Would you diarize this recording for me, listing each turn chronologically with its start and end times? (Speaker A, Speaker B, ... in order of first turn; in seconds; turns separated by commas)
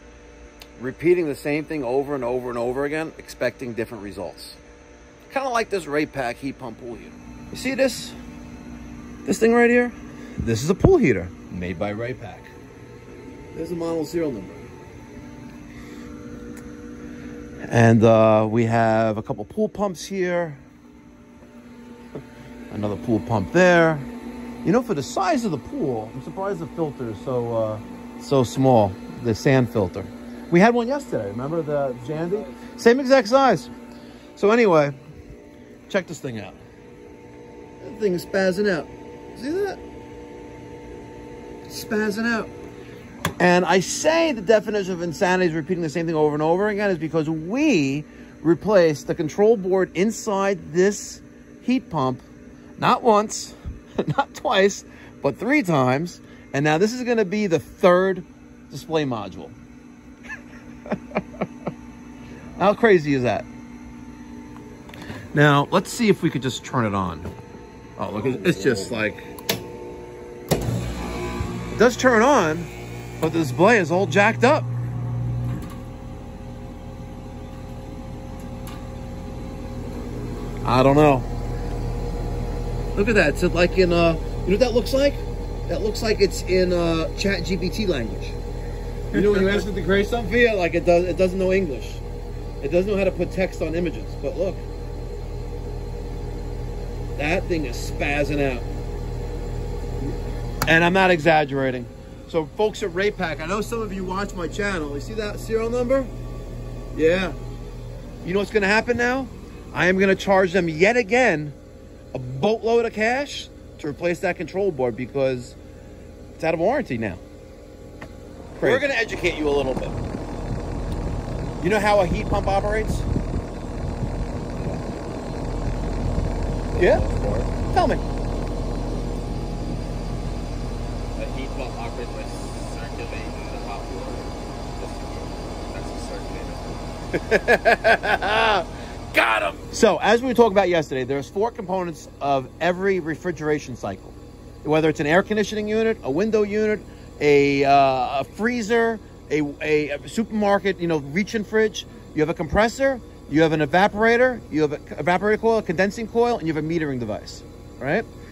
Speaker A: 0.8-4.6, Speaker A: 5.3-8.2, Speaker A: 9.2-12.5, Speaker A: 13.5-14.7, Speaker A: 17.7-20.6, Speaker A: 22.7-24.1, Speaker A: 24.6-33.7, Speaker A: 34.4-35.0, Speaker A: 35.9-36.6, Speaker A: 37.8-39.8, Speaker A: 41.7-42.5, Speaker A: 43.4-52.2, Speaker A: 52.8-59.5, Speaker A: 62.6-63.5, Speaker A: 65.3-67.3, Speaker A: 68.0-69.3, Speaker A: 71.7-74.7, Speaker A: 80.6-81.3, Speaker A: 83.0-88.4, Speaker A: 89.1-92.0, Speaker A: 92.6-94.6, Speaker A: 97.2-98.7, Speaker A: 100.7-106.1, Speaker A: 106.9-107.4, Speaker A: 108.2-111.5, Speaker A: 112.1-115.6, Speaker A: 116.4-117.2, Speaker A: 118.6-120.0, Speaker A: 121.6-123.1, Speaker B: 124.6-124.8, Speaker B: 126.7-127.5, Speaker A: 126.8-127.0, Speaker A: 127.7-128.0, Speaker B: 131.2-137.2, Speaker A: 137.2-138.4, Speaker B: 138.0-139.7, Speaker A: 139.7-158.1